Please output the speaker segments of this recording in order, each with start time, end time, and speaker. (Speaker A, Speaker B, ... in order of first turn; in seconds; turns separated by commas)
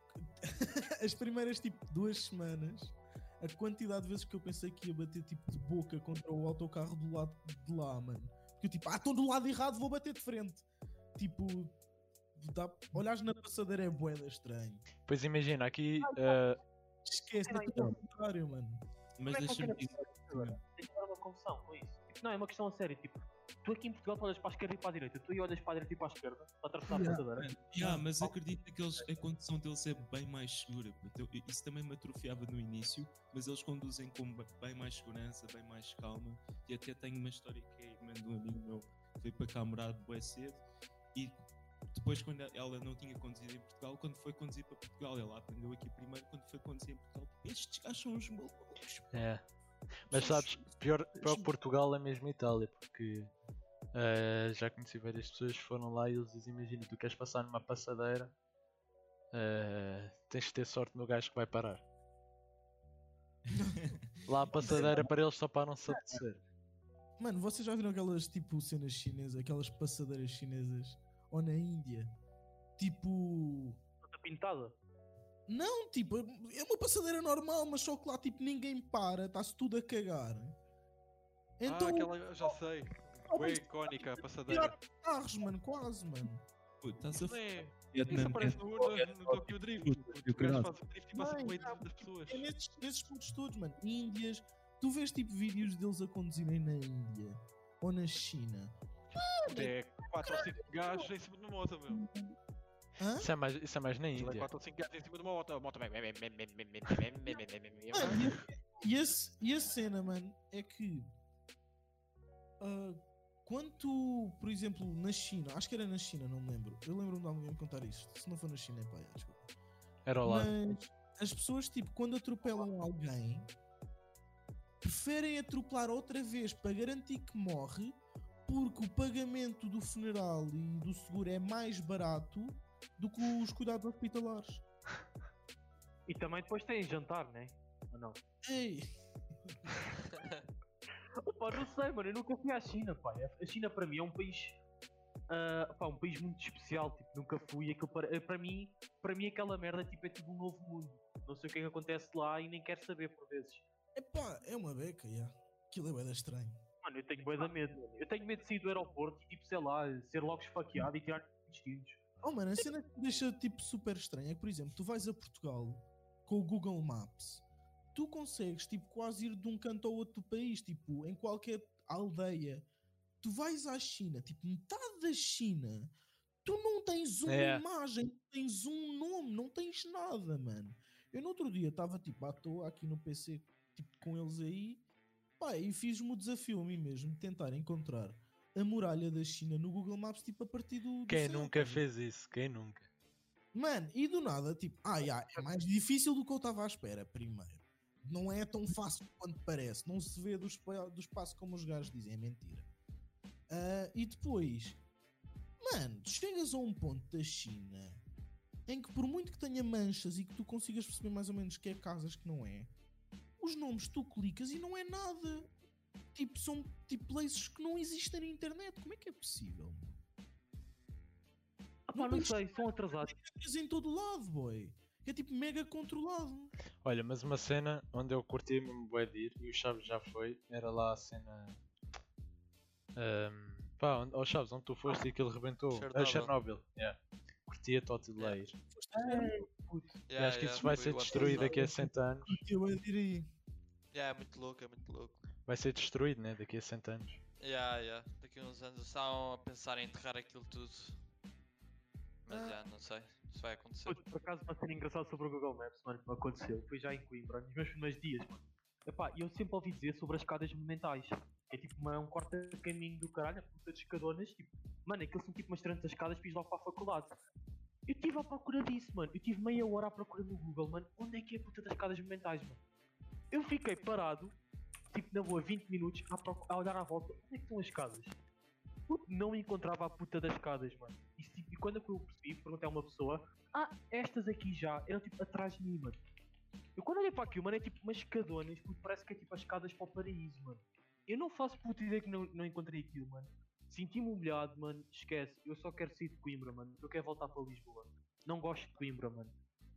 Speaker A: 0.2-10.7, Speaker A: 11.2-11.8, Speaker A: 12.4-14.9, Speaker B: 15.0-16.6, Speaker C: 16.0-16.4, Speaker A: 17.1-18.8, Speaker C: 17.4-18.0, Speaker D: 19.2-20.6, Speaker C: 19.3-27.5, Speaker A: 26.9-27.2, Speaker D: 27.4-40.6, Speaker D: 41.1-49.2, Speaker B: 49.1-49.4, Speaker B: 50.1-53.3, Speaker A: 50.1-50.6, Speaker A: 51.2-51.5, Speaker B: 53.9-58.3, Speaker B: 59.3-61.8, Speaker A: 63.5-64.0, Speaker D: 63.8-64.0, Speaker B: 64.3-66.4, Speaker A: 64.5-65.1, Speaker A: 66.0-66.2, Speaker A: 67.2-72.1, Speaker A: 72.8-73.8, Speaker C: 74.0-74.8, Speaker A: 75.5-80.6, Speaker A: 81.6-82.6, Speaker E: 81.6-84.8, Speaker A: 83.3-86.4, Speaker D: 86.8-90.7, Speaker E: 87.1-92.5, Speaker A: 91.2-101.1, Speaker E: 99.4-102.0, Speaker A: 101.9-102.3, Speaker A: 103.0-103.3, Speaker B: 103.2-104.5, Speaker E: 104.1-108.4, Speaker A: 107.9-111.1, Speaker A: 112.6-119.4, Speaker B: 120.1-120.5, Speaker A: 120.2-123.5, Speaker A: 124.8-134.6, Speaker C: 136.1-138.2, Speaker A: 138.4-138.9, Speaker F: 140.0-140.4, Speaker C: 141.2-144.6, Speaker C: 145.3-153.6, Speaker A: 153.9-156.6, Speaker C: 156.8-162.0, Speaker A: 162.2-172.7, Speaker A: 173.2-175.9, Speaker A: 176.4-184.8, Speaker B: 177.3-177.6, Speaker A: 185.4-191.8, Speaker B: 191.1-192.9, Speaker A: 193.5-202.7, Speaker A: 203.5-204.8, Speaker A: 205.6-208.0, Speaker A: 208.7-212.7, Speaker A: 213.4-215.5, Speaker A: 216.1-220.0, Speaker C: 221.9-223.2, Speaker A: 221.9-226.5, Speaker B: 226.8-231.6, Speaker B: 232.9-238.6, Speaker F: 235.7-236.3, Speaker A: 238.7-239.4, Speaker C: 238.9-239.9, Speaker F: 240.1-241.6, Speaker B: 240.2-242.4, Speaker A: 240.6-243.3, Speaker F: 243.9-245.2, Speaker B: 245.5-247.2, Speaker F: 247.4-251.0, Speaker F: 252.3-254.0, Speaker C: 252.3-252.6, Speaker C: 253.9-267.1, Speaker C: 267.9-272.6, Speaker C: 273.3-274.4, Speaker C: 274.9-278.2, Speaker C: 278.9-286.0, Speaker C: 286.8-299.3